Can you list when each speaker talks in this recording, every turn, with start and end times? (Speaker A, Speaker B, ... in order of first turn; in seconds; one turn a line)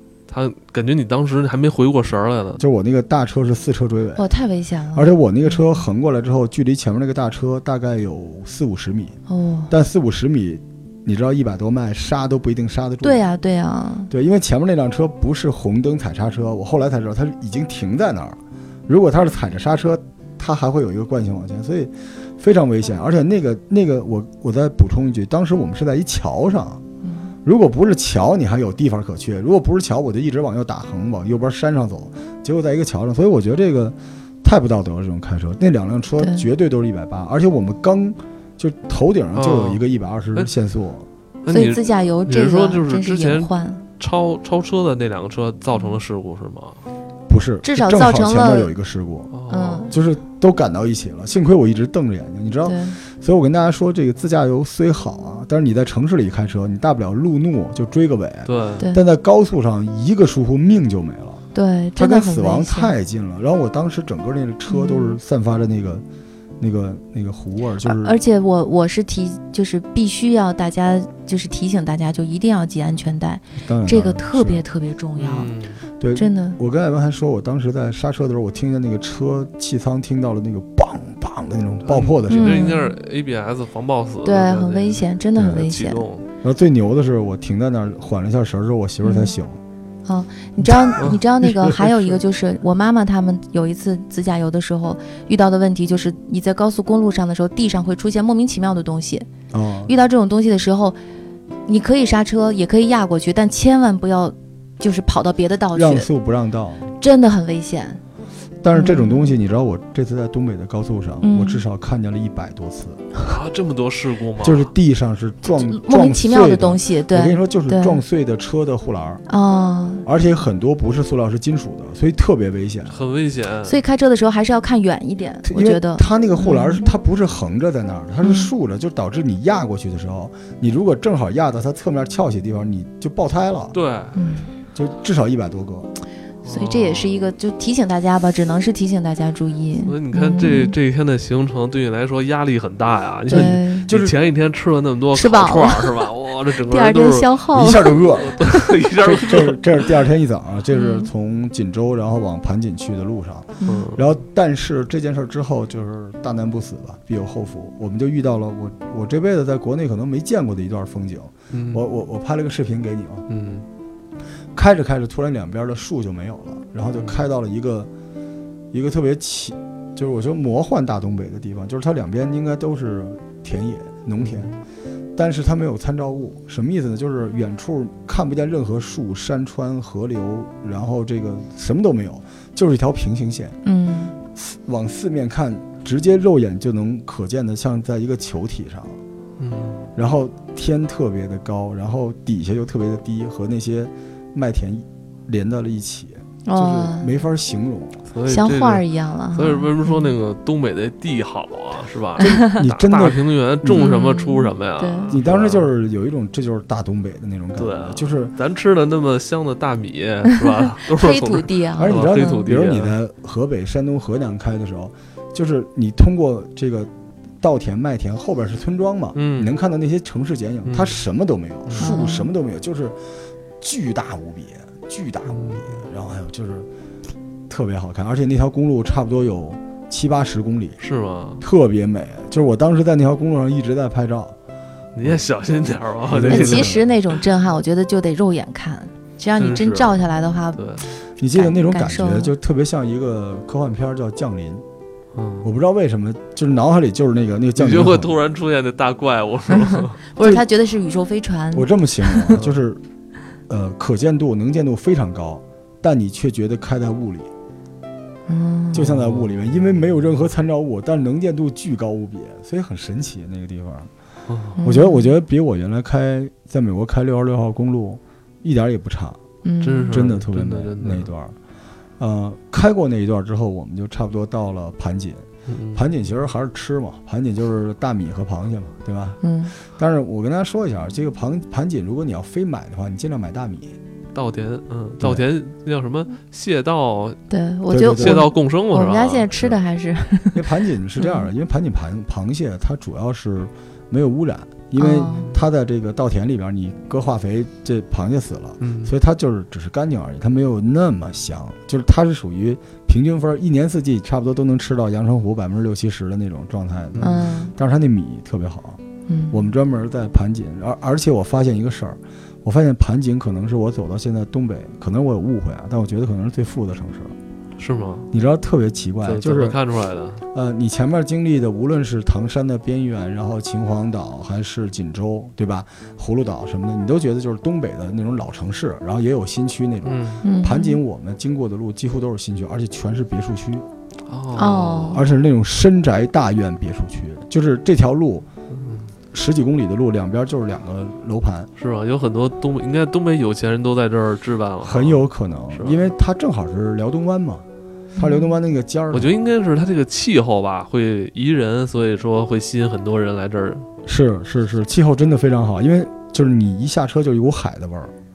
Speaker A: 0.3-2.6
Speaker B: 2.6-4.3
Speaker C: 4.2-5.6
Speaker B: 4.9-9.2
Speaker C: 9.3-9.7
Speaker B: 9.7-13.2
Speaker C: 13.0-14.1
Speaker B: 14.1-26.8
Speaker C: 27.0-27.3
Speaker B: 27.4-41.1
Speaker C: 36.2-36.5
Speaker A: 39.4-39.8
Speaker A: 41.4-46.8
Speaker C: 41.5-43.8
Speaker B: 47.3-49.3
Speaker C: 47.6-48.7
Speaker A: 49.3-50.0
Speaker C: 49.5-49.9
Speaker B: 49.9-61.4
Speaker C: 52.6-53.0
Speaker A: 58.5-58.9
Speaker C: 61.5-62.9
Speaker B: 62.0-66.0
Speaker C: 64.7-65.2
Speaker B: 66.6-68.2
Speaker C: 67.8-75.5
Speaker B: 73.6-74.6
Speaker A: 75.2-75.8
Speaker B: 76.0-82.7
Speaker C: 76.2-76.6
Speaker A: 81.9-86.2
Speaker C: 82.3-82.9
Speaker C: 84.2-86.0
Speaker B: 85.4-85.7
Speaker B: 86.4-89.6
Speaker C: 89.0-89.3
Speaker C: 90.1-99.3
Speaker B: 90.6-92.0
Speaker B: 99.5-99.9
Speaker C: 99.9-101.0
Speaker C: 101.7-106.1
Speaker B: 105.7-106.9
Speaker C: 107.0-108.0
Speaker B: 108.6-113.1
Speaker C: 108.7-109.3
Speaker C: 111.2-111.6
Speaker A: 113.3-114.7
Speaker B: 114.4-119.2
Speaker C: 115.5-118.0
Speaker C: 119.3-120.0
Speaker B: 120.0-123.0
Speaker A: 122.9-123.8
Speaker C: 123.6-126.9
Speaker B: 125.4-133.8
Speaker C: 128.2-128.5
Speaker A: 133.7-134.2
Speaker C: 134.2-134.5
Speaker B: 134.7-135.9
Speaker A: 136.4-137.2
Speaker C: 136.5-140.8
Speaker A: 139.9-147.3
Speaker B: 143.3-144.2
Speaker C: 143.3-143.9
Speaker C: 145.1-146.1
Speaker C: 146.7-148.0
Speaker B: 147.5-163.3
Speaker A: 148.1-149.9
Speaker C: 150.7-151.1
Speaker C: 153.6-153.9
Speaker A: 153.7-154.1
Speaker A: 161.5-161.8
Speaker A: 163.3-163.7
Speaker B: 164.5-167.9
Speaker A: 166.9-167.2
Speaker B: 168.7-174.5
Speaker A: 174.2-174.5
Speaker B: 175.2-183.6
Speaker C: 183.6-184.1
Speaker B: 184.3-189.0
Speaker A: 189.4-189.9
Speaker B: 190.0-198.0
Speaker C: 196.4-197.2
Speaker A: 198.1-205.7
Speaker C: 198.3-200.1
Speaker C: 202.2-202.6
Speaker B: 202.2-203.9
Speaker C: 203.7-205.1
Speaker B: 205.1-208.3
Speaker A: 207.6-212.9
Speaker C: 210.8-212.4
Speaker B: 211.8-216.9
Speaker B: 217.4-223.0
Speaker A: 219.2-219.6
Speaker A: 220.7-221.0
Speaker A: 221.7-222.0
Speaker C: 221.8-222.3
Speaker B: 223.6-226.7
Speaker A: 225.3-225.7
Speaker B: 227.5-230.8
Speaker A: 230.8-231.4
Speaker B: 231.4-234.3
Speaker A: 235.0-236.8
Speaker B: 235.0-235.2
Speaker B: 236.1-236.8
Speaker C: 236.2-242.3
Speaker A: 239.4-240.8
Speaker B: 241.1-244.6
Speaker A: 245.2-245.5
Speaker B: 245.4-248.2
Speaker A: 247.6-250.0
Speaker C: 249.7-252.4
Speaker B: 250.2-250.5
Speaker B: 251.5-252.8
Speaker A: 252.3-252.6
Speaker B: 253.5-257.3
Speaker C: 258.3-258.8
Speaker B: 258.7-263.9
Speaker A: 258.8-259.8
Speaker A: 264.3-264.6
Speaker C: 264.6-265.1
Speaker B: 264.6-269.2
Speaker C: 269.4-270.0
Speaker A: 269.6-271.1
Speaker B: 269.9-271.4
Speaker B: 272.0-283.8
Speaker A: 275.5-275.9
Speaker C: 279.2-279.5
Speaker A: 284.1-287.2
Speaker C: 287.3-290.4
Speaker B: 287.7-288.3
Speaker A: 287.9-289.5
Speaker B: 290.3-317.1
Speaker C: 291.0-291.3
Speaker C: 294.8-295.3
Speaker A: 298.6-298.9
Speaker A: 306.9-307.2
Speaker C: 307.0-307.5
Speaker C: 309.1-309.5
Speaker A: 317.6-318.1
Speaker B: 318.1-319.6
Speaker A: 319.0-320.2
Speaker B: 320.3-333.7
Speaker A: 329.9-330.2
Speaker C: 330.2-330.8
Speaker A: 334.1-335.1
Speaker C: 334.4-335.0
Speaker B: 334.9-338.3
Speaker A: 338.5-338.9
Speaker B: 339.1-341.5
Speaker A: 341.6-345.9
Speaker B: 344.6-347.4
Speaker C: 348.0-348.3
Speaker B: 348.0-349.1
Speaker A: 348.9-353.7
Speaker B: 353.8-357.9